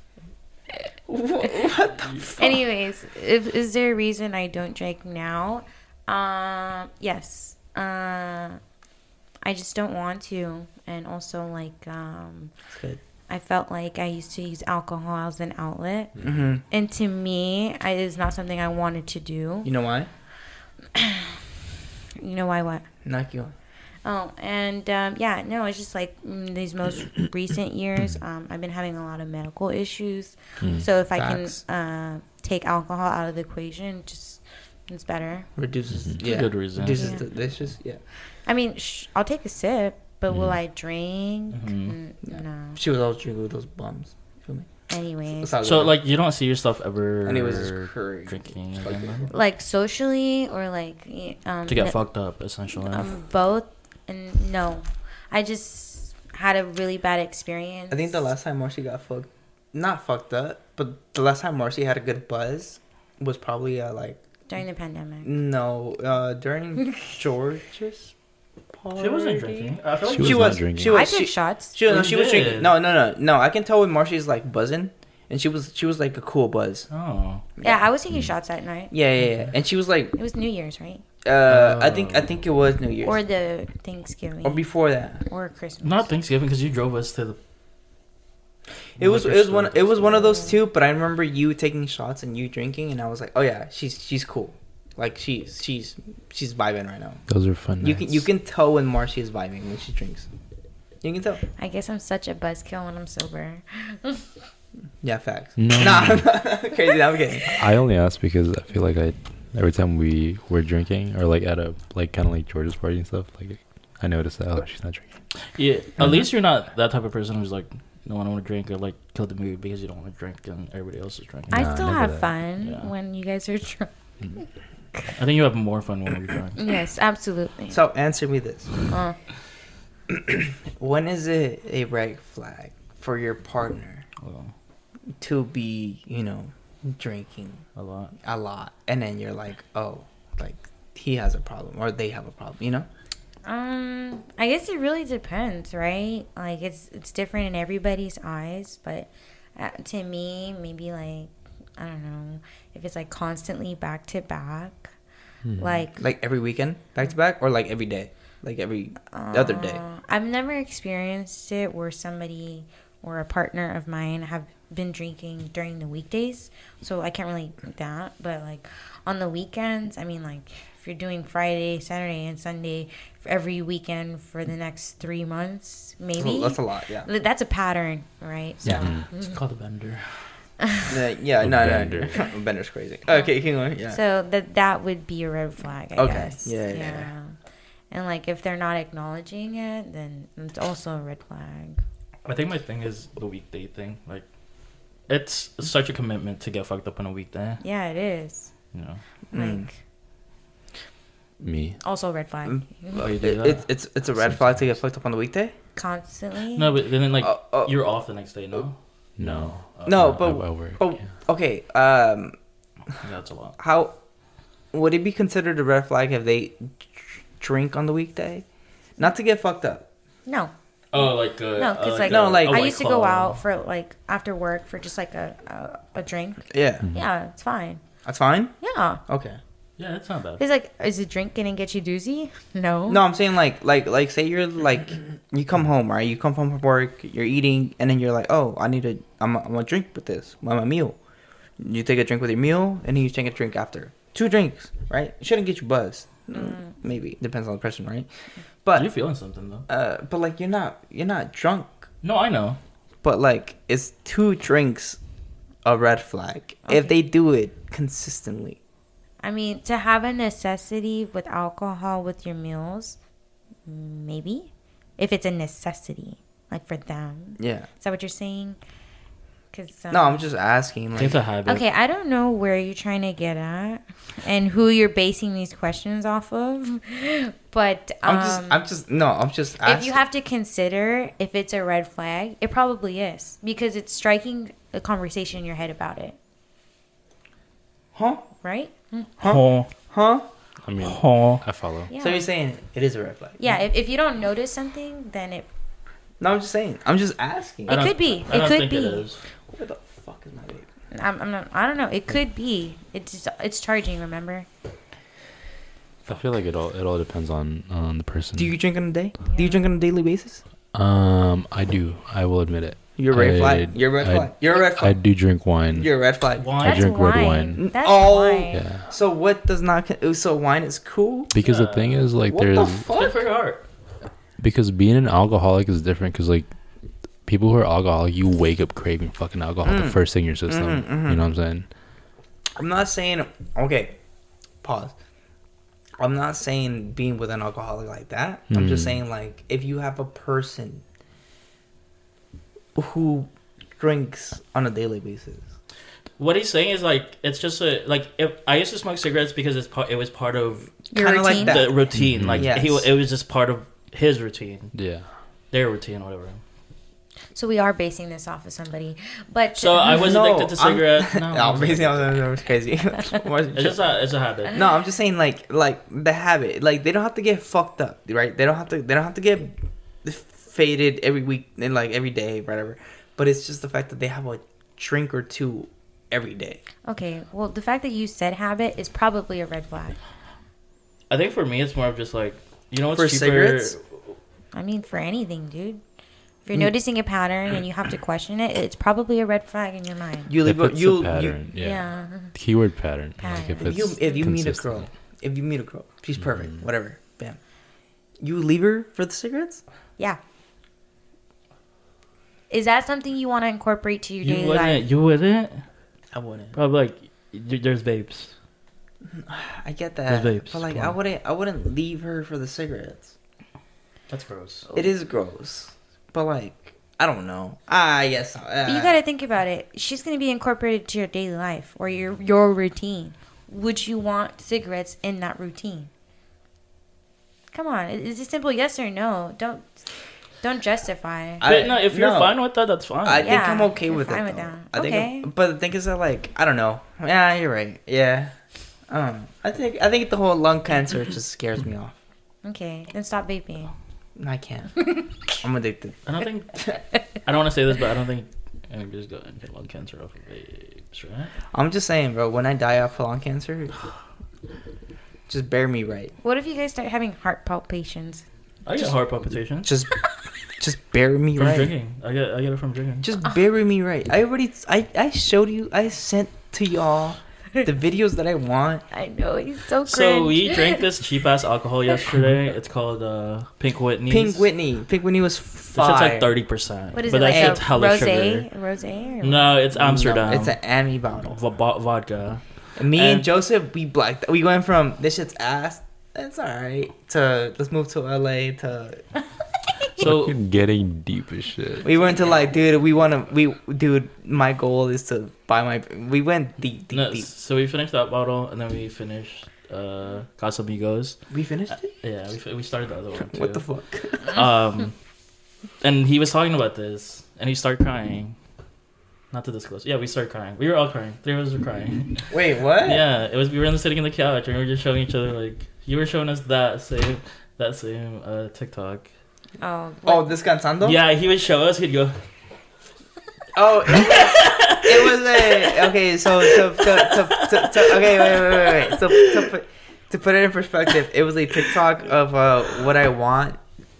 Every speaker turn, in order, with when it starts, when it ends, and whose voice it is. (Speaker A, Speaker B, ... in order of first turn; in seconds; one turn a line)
Speaker A: 1.1-2.6
Speaker B: 2.4-8.6
Speaker B: 9.4-12.5
Speaker A: 12.7-13.0
Speaker B: 13.3-16.1
Speaker A: 16.2-16.6
Speaker B: 16.7-19.7
Speaker A: 19.6-20.1
Speaker B: 20.9-21.4
Speaker B: 22.2-22.9
Speaker A: 23.1-23.5
Speaker B: 24.1-35.5
Speaker A: 31.1-31.6
Speaker A: 35.6-38.0
Speaker C: 36.2-37.2
Speaker B: 37.0-37.2
Speaker B: 38.5-42.8
Speaker C: 41.5-42.0
Speaker A: 42.3-44.7
Speaker B: 44.9-45.5
Speaker A: 45.4-46.0
Speaker C: 45.6-49.3
Speaker A: 47.2-49.4
Speaker B: 49.3-52.0
Speaker C: 51.7-53.1
Speaker B: 52.8-58.2
Speaker A: 57.9-64.2
Speaker B: 64.5-65.3
Speaker A: 65.2-68.1
Speaker A: 68.7-76.9
Speaker C: 69.0-70.6
Speaker D: 70.1-71.0
Speaker B: 70.8-71.8
Speaker C: 71.9-72.7
Speaker C: 76.9-77.4
Speaker B: 77.6-78.9
Speaker A: 78.9-80.2
Speaker B: 80.2-81.0
Speaker A: 81.2-83.2
Speaker C: 81.5-82.3
Speaker B: 83.0-84.7
Speaker A: 84.4-85.2
Speaker B: 85.2-86.1
Speaker C: 85.8-87.4
Speaker C: 89.0-90.4
Speaker A: 89.0-97.2
Speaker D: 97.3-98.3
Speaker A: 97.8-100.3
Speaker A: 101.0-101.4
Speaker B: 101.6-104.3
Speaker A: 105.0-107.5
Speaker D: 105.6-106.3
Speaker D: 107.5-115.1
Speaker C: 115.5-121.6
Speaker D: 121.5-122.3
Speaker B: 121.5-124.5
Speaker C: 122.6-122.9
Speaker C: 125.2-126.6
Speaker B: 126.6-127.8
Speaker A: 127.7-128.7
Speaker B: 128.9-129.2
Speaker A: 130.1-134.1
Speaker C: 134.2-134.5
Speaker A: 135.2-137.6
Speaker C: 137.8-138.1
Speaker A: 138.2-142.9
Speaker B: 143.5-154.9
Speaker D: 155.5-155.8
Speaker B: 155.6-156.0
Speaker A: 156.0-159.8
Speaker B: 159.1-179.4
Speaker A: 176.2-177.1
Speaker D: 178.7-179.1
Speaker C: 179.1-180.2
Speaker A: 180.9-184.0
Speaker D: 181.4-182.2
Speaker B: 183.9-187.3
Speaker A: 186.0-187.1
Speaker B: 187.9-191.8
Speaker C: 192.2-194.2
Speaker C: 195.1-197.6
Speaker B: 197.6-198.5
Speaker C: 198.7-199.0
Speaker A: 199.3-199.7
Speaker B: 199.3-199.8
Speaker D: 201.4-201.8
Speaker B: 201.8-203.1
Speaker A: 202.5-205.5
Speaker C: 202.9-203.6
Speaker D: 204.2-204.6
Speaker B: 205.8-206.7
Speaker C: 206.6-210.1
Speaker A: 207.2-207.7
Speaker D: 209.2-211.0
Speaker A: 209.9-212.4
Speaker C: 213.0-213.6
Speaker A: 213.6-214.0
Speaker A: 214.7-218.4
Speaker A: 219.0-219.9
Speaker B: 220.3-220.5
Speaker C: 220.9-223.4
Speaker B: 221.6-227.8
Speaker A: 222.1-222.7
Speaker A: 226.5-226.9
Speaker A: 228.1-228.6
Speaker B: 228.6-229.0
Speaker A: 229.1-229.4
Speaker C: 229.8-230.4
Speaker B: 230.4-233.0
Speaker A: 232.9-241.0
Speaker A: 241.6-248.1
Speaker B: 246.3-246.7
Speaker A: 248.6-248.9
Speaker C: 248.8-249.7
Speaker A: 249.7-251.9
Speaker C: 252.0-252.6
Speaker A: 253.0-255.0
Speaker A: 255.6-258.6
Speaker B: 256.7-256.9
Speaker B: 259.2-263.0
Speaker B: 263.7-268.6
Speaker A: 267.4-267.7
Speaker B: 269.5-270.2
Speaker A: 269.9-271.2
Speaker C: 271.0-271.6
Speaker B: 271.5-278.6
Speaker A: 278.0-280.0
Speaker B: 279.6-286.2
Speaker A: 287.9-288.2
Speaker B: 288.4-289.1
Speaker A: 289.2-290.2
Speaker C: 289.2-289.7
Speaker D: 290.6-291.9
Speaker C: 290.8-291.4
Speaker B: 291.9-292.3
Speaker A: 292.0-293.6
Speaker B: 293.4-295.5
Speaker A: 296.2-297.8
Speaker B: 297.7-299.0
Speaker C: 297.7-299.2
Speaker A: 299.5-300.7
Speaker B: 300.9-304.5
Speaker D: 306.1-308.6
Speaker A: 308.4-310.4
Speaker B: 309.3-309.6
Speaker D: 310.7-315.9
Speaker A: 313.0-315.0
Speaker A: 315.7-316.5
Speaker C: 316.4-316.9
Speaker D: 316.6-317.6
Speaker B: 316.6-318.6
Speaker A: 317.6-321.3
Speaker D: 318.5-318.9
Speaker D: 321.3-322.9
Speaker C: 321.4-322.1
Speaker A: 322.3-323.2
Speaker C: 322.9-323.6
Speaker D: 324.4-326.5
Speaker D: 327.2-331.7
Speaker A: 329.6-331.2
Speaker A: 332.6-334.0
Speaker A: 334.6-334.9
Speaker A: 336.0-340.8
Speaker D: 338.5-339.0
Speaker A: 342.8-345.5
Speaker C: 346.2-350.7
Speaker B: 350.9-351.6
Speaker A: 350.9-352.9
Speaker C: 351.3-354.8
Speaker D: 352.0-352.5
Speaker D: 354.7-355.1
Speaker C: 355.5-356.4
Speaker B: 357.3-360.0
Speaker C: 359.6-362.1
Speaker A: 359.9-363.8
Speaker C: 363.5-364.6
Speaker A: 364.5-376.6
Speaker B: 376.9-380.0
Speaker C: 381.1-383.8
Speaker A: 382.9-383.8
Speaker B: 384.5-385.8
Speaker B: 386.5-390.3
Speaker A: 390.3-391.4
Speaker D: 390.4-394.9
Speaker B: 391.6-392.4
Speaker B: 393.2-394.3
Speaker A: 393.6-397.4
Speaker A: 398.2-399.6
Speaker B: 402.5-404.8
Speaker C: 404.2-405.6
Speaker A: 406.1-406.6
Speaker C: 406.5-408.3
Speaker A: 409.1-413.1
Speaker C: 410.1-410.9
Speaker C: 414.1-414.8
Speaker A: 414.7-419.0
Speaker B: 418.7-425.9
Speaker B: 427.5-429.8
Speaker B: 430.4-431.5
Speaker A: 431.4-432.4
Speaker C: 431.4-433.3
Speaker A: 433.0-438.3
Speaker B: 433.2-435.3
Speaker A: 438.9-442.0
Speaker B: 442.4-443.7
Speaker A: 444.2-446.0
Speaker C: 446.1-451.3
Speaker A: 451.5-453.7
Speaker A: 455.3-456.1
Speaker B: 456.2-458.2
Speaker C: 458.7-459.7
Speaker A: 459.6-459.9
Speaker A: 460.6-461.7
Speaker C: 461.4-463.1
Speaker A: 463.0-468.8
Speaker B: 468.9-470.8
Speaker C: 469.9-474.5
Speaker A: 474.1-476.3
Speaker C: 475.7-478.5
Speaker B: 476.9-479.5
Speaker A: 477.3-477.6
Speaker C: 479.2-480.6
Speaker A: 479.7-481.4
Speaker C: 481.3-483.3
Speaker A: 482.8-489.0
Speaker C: 490.0-490.4
Speaker D: 490.0-491.9
Speaker A: 491.8-497.3
Speaker C: 496.9-501.2
Speaker A: 501.3-501.9
Speaker C: 502.0-503.6
Speaker A: 503.2-504.4
Speaker C: 504.2-504.9
Speaker C: 505.8-508.4
Speaker C: 509.3-512.3
Speaker A: 512.3-513.0
Speaker C: 512.8-519.1
Speaker B: 519.6-520.3
Speaker A: 520.0-521.0
Speaker C: 520.8-522.2
Speaker A: 523.5-533.6
Speaker C: 523.9-529.5